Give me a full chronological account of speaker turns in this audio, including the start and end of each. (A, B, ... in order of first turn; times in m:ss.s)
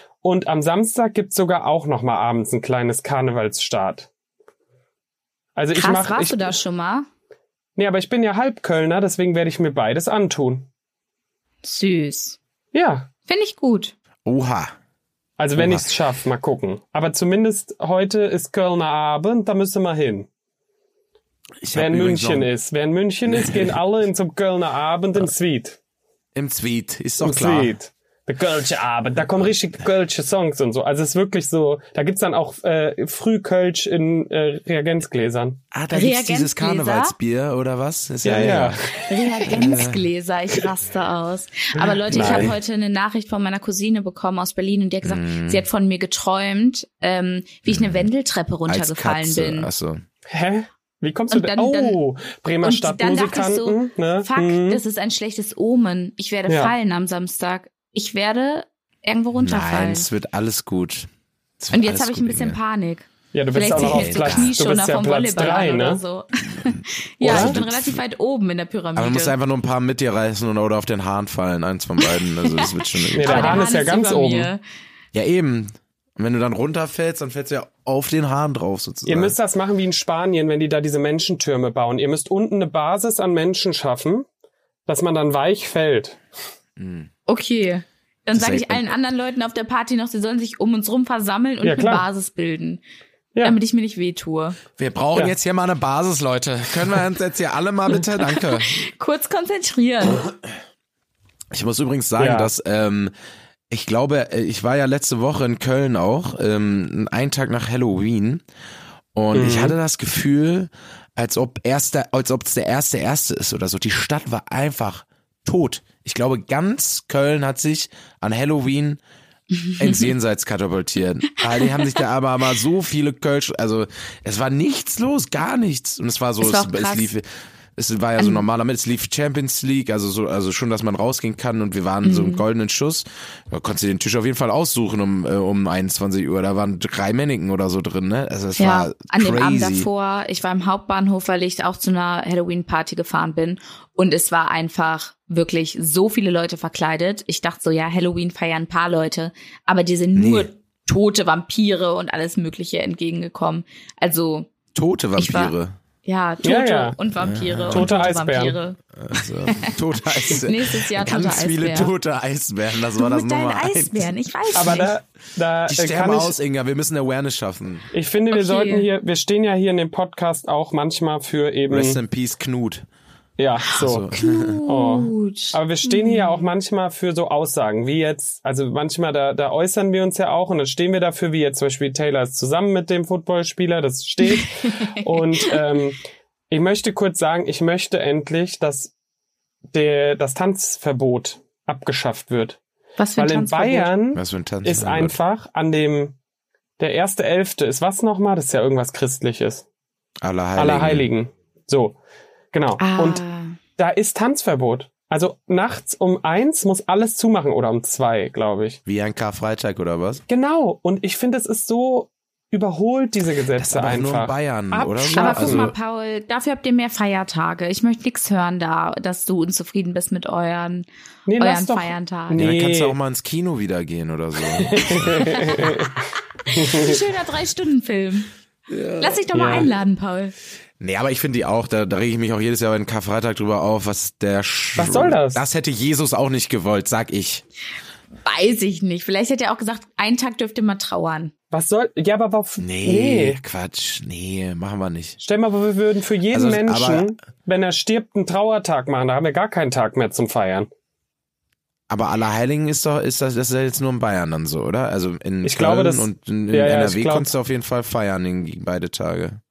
0:00.2-0:04.1 A
0:05.6-0:06.5 A
0:05.8-0:07.1 B
0:07.8-0:10.7 A
0:11.6-0:12.4 B
0:12.7-0:13.1 A
0:13.3-0:13.9 B
0:14.2-0:14.7 C
0:15.4-0:20.3 A
0:15.6-0:15.9 C
0:21.6-0:22.5 C
0:21.7-0:25.8 A
0:23.3-0:23.7 C
0:26.4-0:27.7 C
0:27.2-0:35.6 A
0:35.7-0:38.9 C
0:35.9-0:37.2 B
0:38.2-0:39.2 A
0:39.0-0:49.7 B
0:39.4-0:40.0 C
0:41.8-0:42.5 A
0:42.1-0:42.6 C
0:45.0-0:45.6 C
0:47.7-0:48.1 C
0:48.7-0:50.0 C
0:50.3-0:54.8 A
0:51.3-0:52.0 B
0:52.6-1:00.1 B
0:56.5-0:56.7 A
0:59.4-1:01.1 C
1:01.6-1:02.6 C
1:01.7-1:09.3 B
1:03.3-1:06.0 A
1:03.8-1:04.6 C
1:06.6-1:08.0 C
1:07.2-1:07.6 A
1:09.0-1:13.7 C
1:12.0-1:14.6 B
1:13.1-1:14.5 A
1:15.1-1:19.4 C
1:19.1-1:24.3 A
1:24.9-1:26.2 A
1:26.8-1:27.1 C
1:27.3-1:32.8 B
1:28.3-1:28.9 C
1:31.6-1:32.0 A
1:33.4-1:34.6 B
1:34.8-1:38.9 C
1:38.1-1:40.3 B
1:41.5-1:43.1 C
1:42.2-1:42.5 A
1:43.7-1:48.4 C
1:49.2-1:59.0 C
1:49.3-1:49.8 A
1:59.6-2:00.1 B
1:59.8-2:19.9 C
2:01.4-2:01.9 B
2:06.4-2:07.1 B
2:08.2-2:08.4 B
2:12.0-2:12.4 B
2:18.6-2:34.5 B
2:30.2-2:30.5 C
2:34.7-2:35.8 C
2:35.2-2:35.5 B
2:36.0-2:41.9 B
2:36.4-2:37.0 A
2:37.2-2:38.1 C
2:37.7-2:38.6 A
2:39.0-2:44.1 C
2:43.0-2:44.9 B
2:44.5-2:46.4 A
2:45.7-2:47.9 C
2:47.9-2:52.0 A
2:48.3-2:48.9 B
2:51.7-2:52.9 C
2:53.4-2:54.1 A
2:53.7-2:54.6 C
2:54.2-2:56.4 B
2:54.6-3:06.0 A
3:04.4-3:05.2 B
3:06.5-3:08.9 A
3:09.7-3:12.6 A
3:13.0-3:13.9 B
3:13.2-3:16.2 A
3:14.1-3:15.2 C
3:16.8-3:19.7 A
3:20.2-3:21.1 C
3:20.6-3:22.0 A
3:22.5-3:23.2 A
3:22.8-3:23.6 B
3:23.8-3:28.8 A
3:28.9-3:30.2 C
3:30.3-3:35.7 A
3:33.6-3:35.7 C
3:35.1-3:40.9 B
3:41.3-3:43.0 A
3:41.4-3:42.5 B
3:42.4-3:45.7 C
3:44.6-3:46.0 A
3:44.9-3:45.8 B
3:46.4-3:48.3 B
3:46.5-3:47.0 A
3:48.7-3:49.2 C
3:49.0-3:50.3 B
3:49.3-3:49.7 A
3:50.8-3:57.4 C
3:54.8-3:55.4 A
3:58.2-4:01.3 B
4:01.5-4:03.4 A
4:02.6-4:05.2 C
4:05.2-4:10.7 A
4:06.3-4:07.1 C
4:11.9-4:19.4 C
4:15.4-4:17.3 A